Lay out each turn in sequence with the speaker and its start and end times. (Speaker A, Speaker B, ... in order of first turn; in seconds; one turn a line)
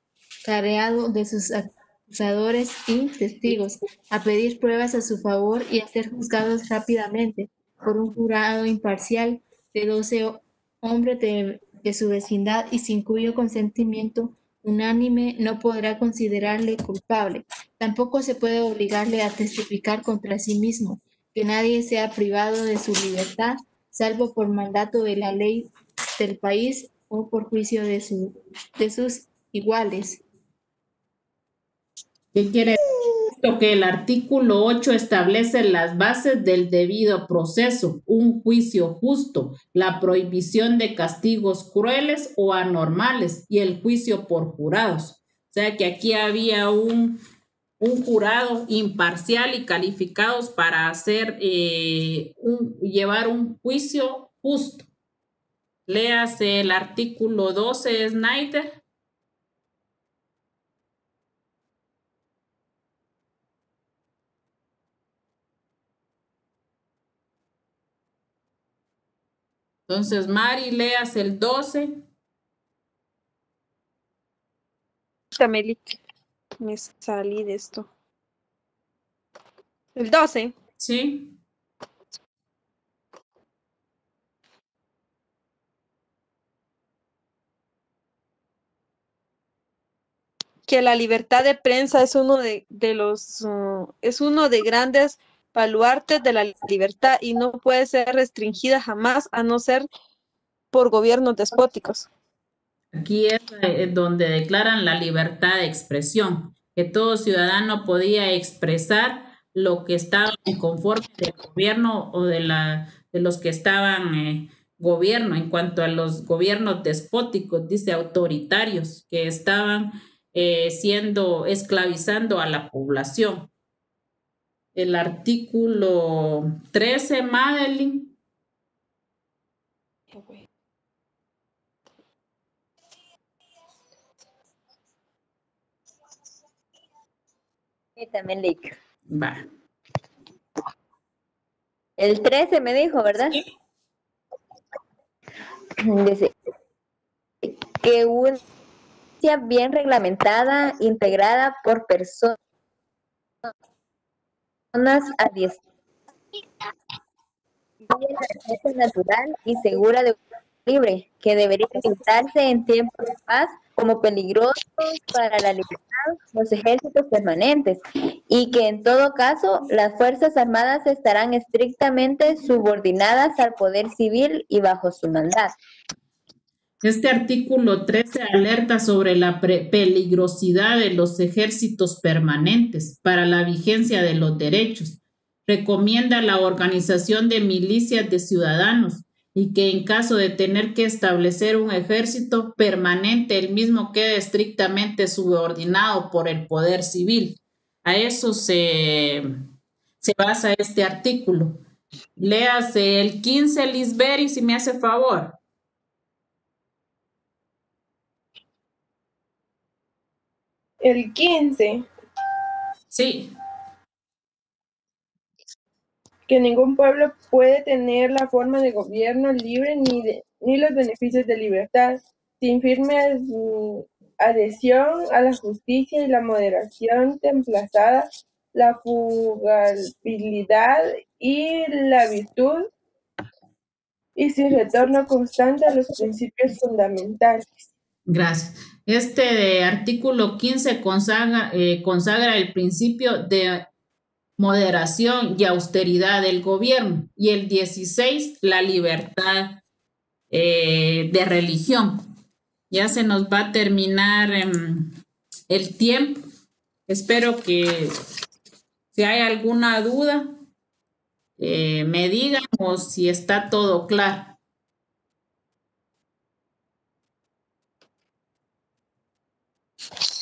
Speaker A: 0.5-30.2
Speaker B: 32.3-47.2
Speaker B: 47.8-54.9
Speaker B: 55.9-58.8
Speaker B: 69.9-72.0
Speaker C: 75.3-76.0
Speaker C: 76.6-77.9
Speaker C: 80.0-80.5
Speaker B: 80.8-81.3
Speaker C: 90.7-99.9
Speaker C: 100.7-102.1
Speaker B: 102.9-123.5
Speaker B: 124.8-128.1
Speaker C: 130.1-130.4
Speaker D: 138.0-138.8
Speaker B: 139.1-139.5
Speaker D: 142.0-143.4
Speaker D: 145.8-146.3
Speaker D: 147.4-148.4
Speaker D: 149.2-152.4
Speaker D: 154.7-155.6
Speaker D: 157.9-175.6
Speaker B: 176.8-199.2
Speaker B: 200.0-201.6
Speaker B: 202.2-205.4
Speaker E: 210.8-211.9
Speaker B: 212.9-213.3
Speaker E: 216.3-232.7
Speaker E: 234.2-237.5
Speaker B: 238.1-243.6
Speaker B: 244.4-249.6
Speaker B: 250.3-252.1
Speaker B: 252.7-254.9
Speaker B: 255.5-256.2
Speaker B: 256.9-257.9
Speaker B: 258.9-260.3
Speaker B: 261.4-264.4